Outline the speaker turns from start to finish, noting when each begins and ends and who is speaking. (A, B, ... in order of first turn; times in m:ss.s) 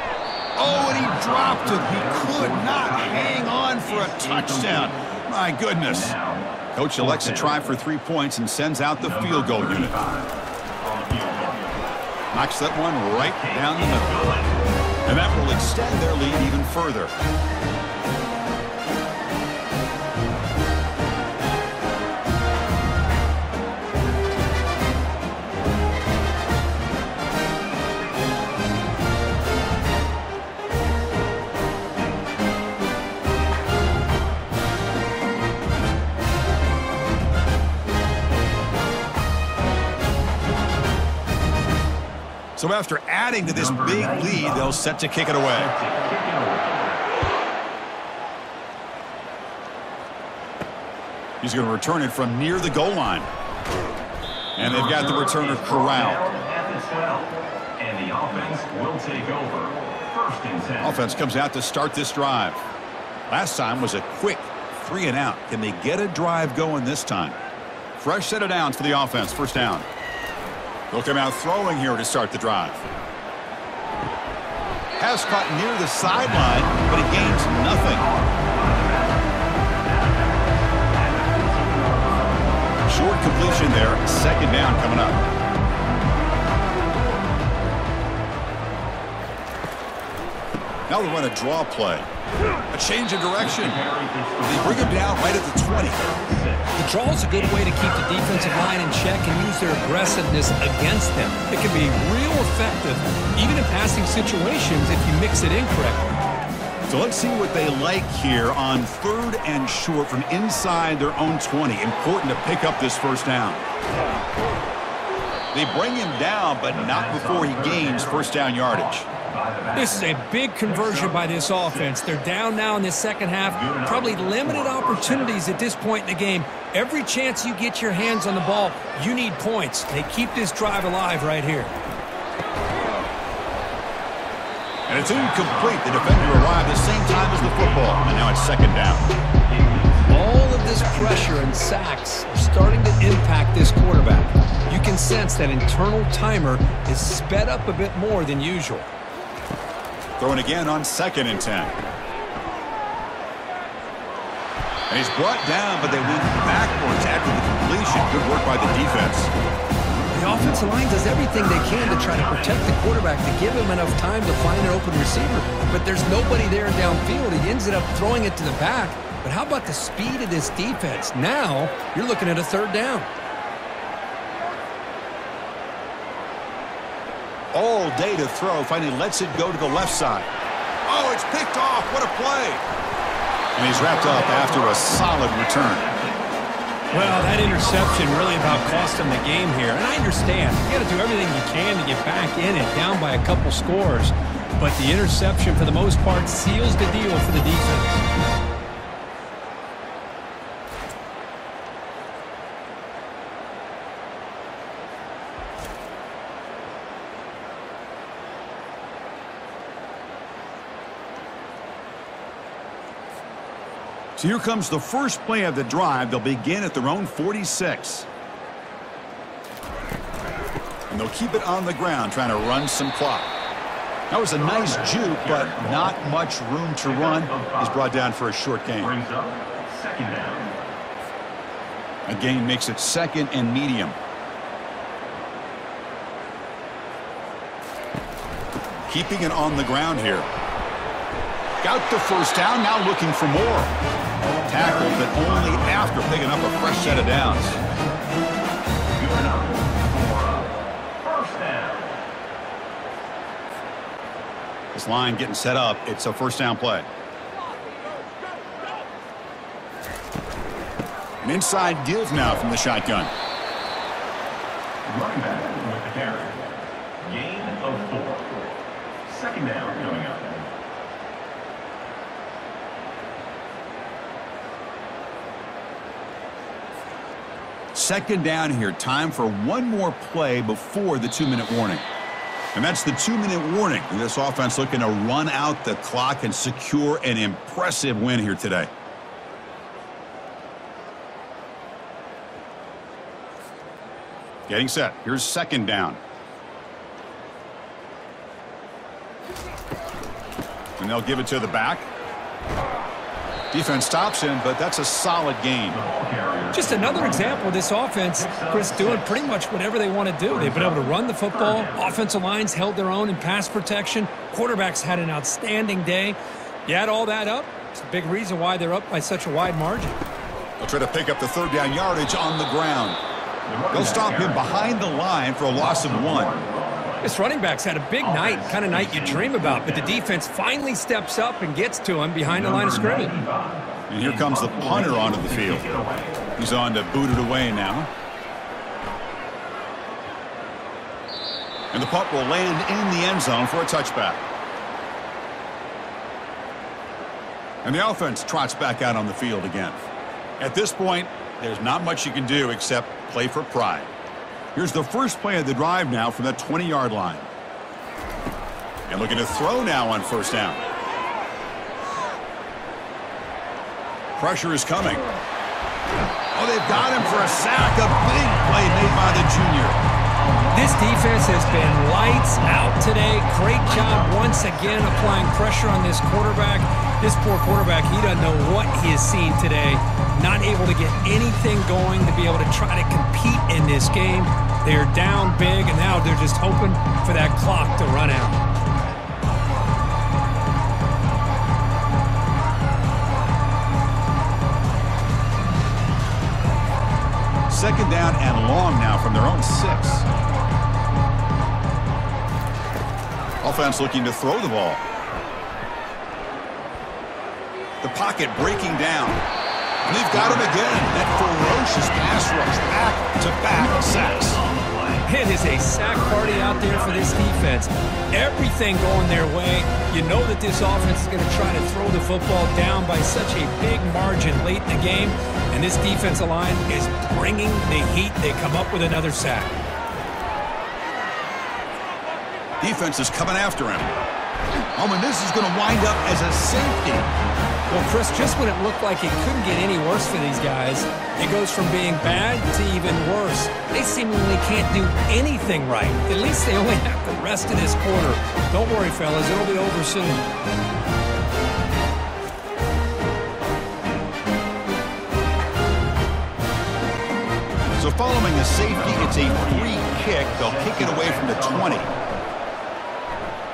0:00.6-0:06.2 A
0:00.6-0:05.1 B
0:05.8-0:07.6 B
0:06.7-0:09.9 A
0:09.0-0:11.8 B
0:12.3-0:14.2 A
0:13.2-0:14.6 B
0:15.0-0:17.1 A
0:42.6-0:45.7 A
0:43.4-0:44.8 B
0:45.4-0:47.0 B
0:51.4-0:53.3 A
0:54.6-0:56.2 A
0:54.6-1:01.0 B
1:00.8-1:02.6 A
1:03.3-1:07.4 A
1:08.0-1:09.9 A
1:10.9-1:12.8 A
1:15.0-1:18.0 A
1:16.2-1:22.3 B
1:22.8-1:25.2 A
1:30.9-1:32.1 A
1:32.7-1:33.8 A
1:33.4-1:36.8 B
1:34.4-1:36.0 A
1:36.8-1:46.1 C
1:46.9-1:53.6 A
1:55.5-1:59.0 A
1:56.7-2:00.1 B
1:59.7-2:11.7 C
2:00.6-2:02.1 B
2:03.5-2:05.4 B
2:14.9-2:19.1 A
2:14.9-2:18.6 B
2:19.5-2:21.3 B
2:20.1-2:28.9 C
2:30.2-2:31.7 A
2:34.9-2:39.3 A
2:36.0-2:39.3 B
2:39.9-2:42.7 B
2:40.1-2:53.1 C
2:57.5-3:00.3 A
3:00.8-3:02.6 A
3:03.6-3:05.9 A
3:03.7-3:06.2 B
3:06.9-3:08.3 B
3:06.9-3:18.0 C
3:34.2-3:38.1 A
3:40.9-3:43.3 A
3:44.1-3:48.9 A
3:44.3-3:46.0 B
3:46.8-3:47.8 B
3:48.8-3:50.6 B
3:52.0-3:54.0 A
3:58.9-4:00.3 A
4:01.6-4:03.7 A
4:04.2-4:07.7 B
4:04.5-4:07.6 A
4:08.9-4:12.0 B
4:14.7-4:16.9 A
4:21.2-4:23.1 A
4:24.8-4:26.5 B
4:27.0-4:28.3 B
4:29.0-4:30.5 B
4:37.7-4:41.8 A
4:42.5-4:48.7 A
4:54.5-4:56.0 A
5:00.8-5:01.9 A
5:03.5-5:05.8 A
5:05.7-5:07.5 B
5:06.5-5:20.0 C
5:08.1-5:09.3 B
5:10.3-5:12.0 B
5:20.6-5:23.0 A
5:23.4-5:24.5 B
5:23.7-5:26.3 A
5:25.5-5:27.1 B
5:27.0-5:33.1 C
5:28.0-5:30.0 B
5:32.2-5:36.3 B
5:33.9-5:35.6 A
5:36.4-5:37.9 A
5:41.7-5:44.2 A
5:47.6-5:49.8 A
5:50.4-5:53.9 A
5:54.5-5:57.3 A
5:58.9-6:00.6 A
6:04.2-6:05.0 A
6:06.3-6:09.8 A
6:10.5-6:28.4 C
6:11.3-6:12.8 B
6:13.6-6:15.2 B
6:37.5-6:40.1 A
6:43.4-6:44.8 A
6:47.8-6:49.2 A
6:49.8-6:54.4 A
6:50.1-6:52.5 B
6:53.5-6:57.3 B
6:55.0-7:09.5 C
7:12.6-7:13.9 A
7:14.7-7:17.1 A
7:17.7-7:30.2 C
7:37.8-7:41.9 A
7:38.6-7:41.9 B